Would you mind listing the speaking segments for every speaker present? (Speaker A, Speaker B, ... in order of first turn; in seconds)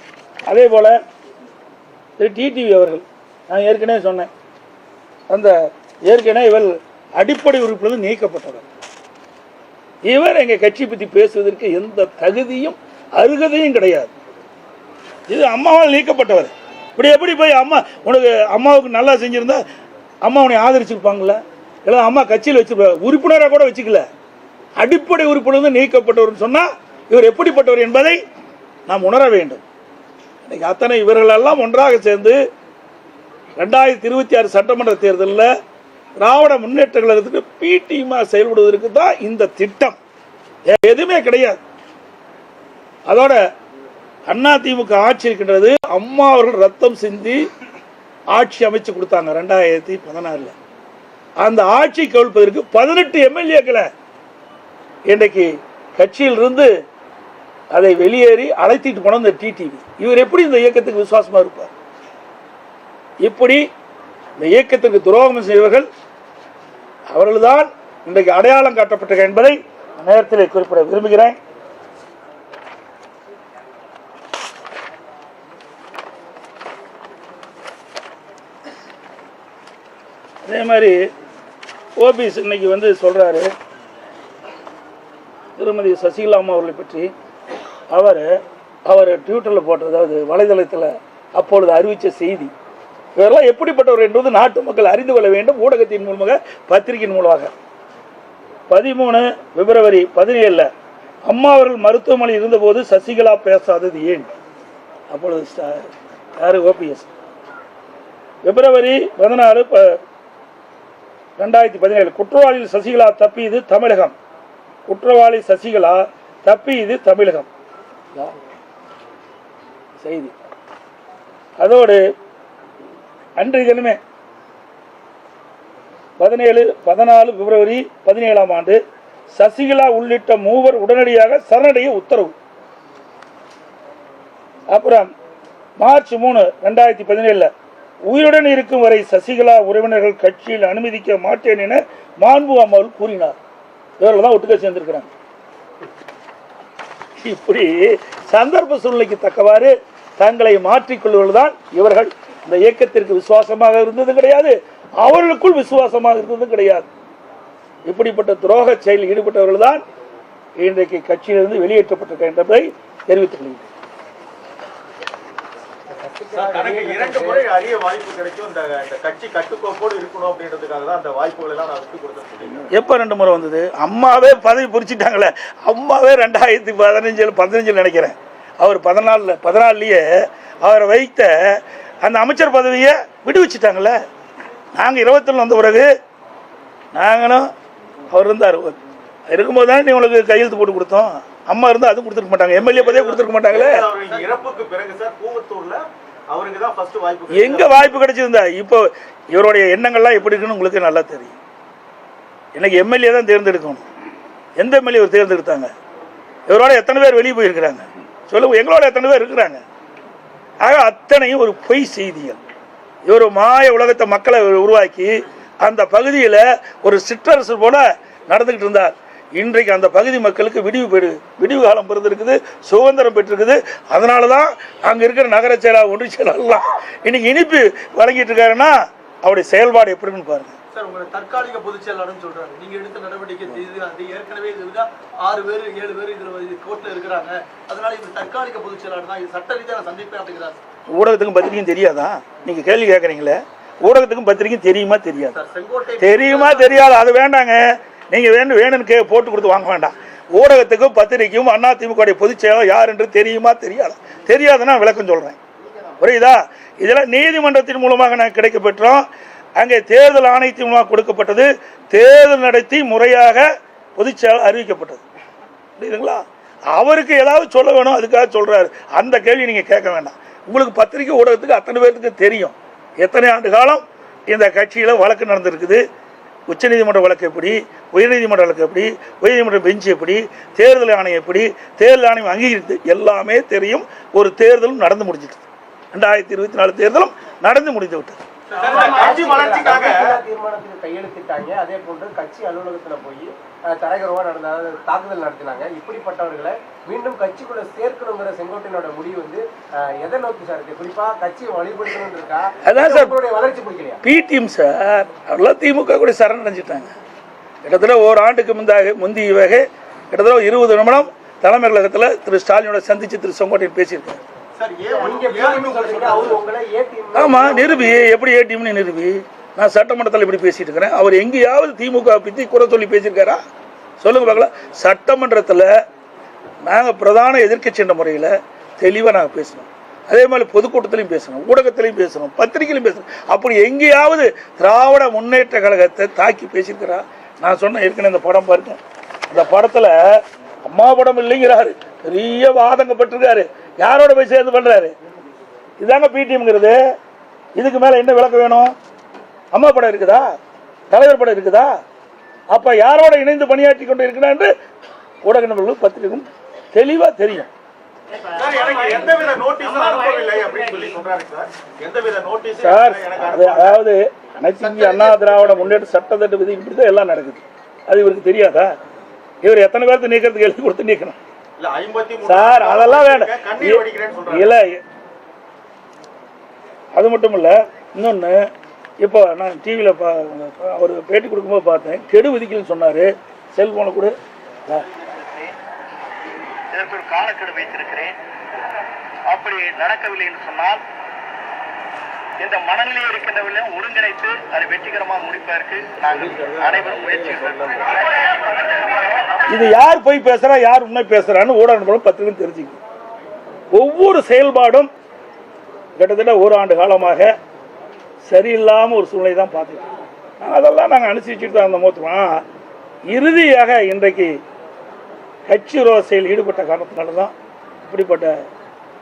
Speaker A: 0.5-1.0, 2.2-4.3, 6.1-8.7, 10.1-14.1, 15.3-19.6, 20.2-24.1, 24.8-28.2, 28.9-29.6, 30.5-32.4, 33.6-35.5, 36.2-40.0, 40.7-41.6, 43.1-43.4, 44.3-47.4, 48.3-50.5, 51.4-53.9, 55.1-56.7, 57.7-61.7, 63.2-63.6, 64.4-65.9, 67.1-71.4, 80.5-81.0, 82.0-83.5, 85.6-87.1, 87.9-88.4, 88.9-92.5, 93.2-97.5, 98.7-100.7, 101.3-104.3, 105.1-105.9, 106.4-107.1, 108.4-110.0, 111.4-114.1, 114.9-117.5, 120.0-120.3, 121.6-122.0, 123.4-124.0, 126.2-128.8, 129.3-132.3, 134.7-135.1, 135.8-137.5, 138.1-143.3, 144.0-145.1, 147.2-156.9, 157.9-159.8, 160.6-163.7, 172.7-180.1, 180.6-184.0, 184.8-185.9, 186.9-187.5, 188.1-188.8, 189.3-193.9, 197.3-201.4, 202.6-203.8, 204.6-205.7, 206.5-209.6, 210.6-212.4, 213.1-230.6, 240.9-245.4, 246.0-255.4, 256.0-263.4, 264.0-265.0, 265.8-275.8, 276.5-288.2, 302.6-303.2, 304.0-306.9, 307.6-314.2, 317.1-323.4, 324.0-325.7, 326.6-338.8, 339.3-344.9, 345.8-346.8, 347.6-348.7, 349.5-350.3, 350.9-351.7, 352.5-354.5, 355.2-357.5, 362.6-368.7, 369.4-371.2, 372.2-374.8, 376.9-378.4, 379.0-384.1, 399.5-402.8, 403.7-404.9, 406.0-407.3, 408.3-409.9, 410.4-412.4, 413.1-414.3, 415.5-417.3, 417.9-418.3
Speaker B: 165.9-167.5, 288.7-299.4, 300.0-304.0, 314.9-318.0
Speaker C: 166.3-172.7, 192.7-197.9, 288.6-290.2, 314.6-316.4, 358.3-363.8, 364.6-365.6, 371.6-374.5, 396.1-397.8
Speaker D: 230.7-240.6, 245.4-246.8, 288.6-289.5
Speaker E: 385.1-385.5, 386.7-388.1, 389.3-390.8, 392.4-398.3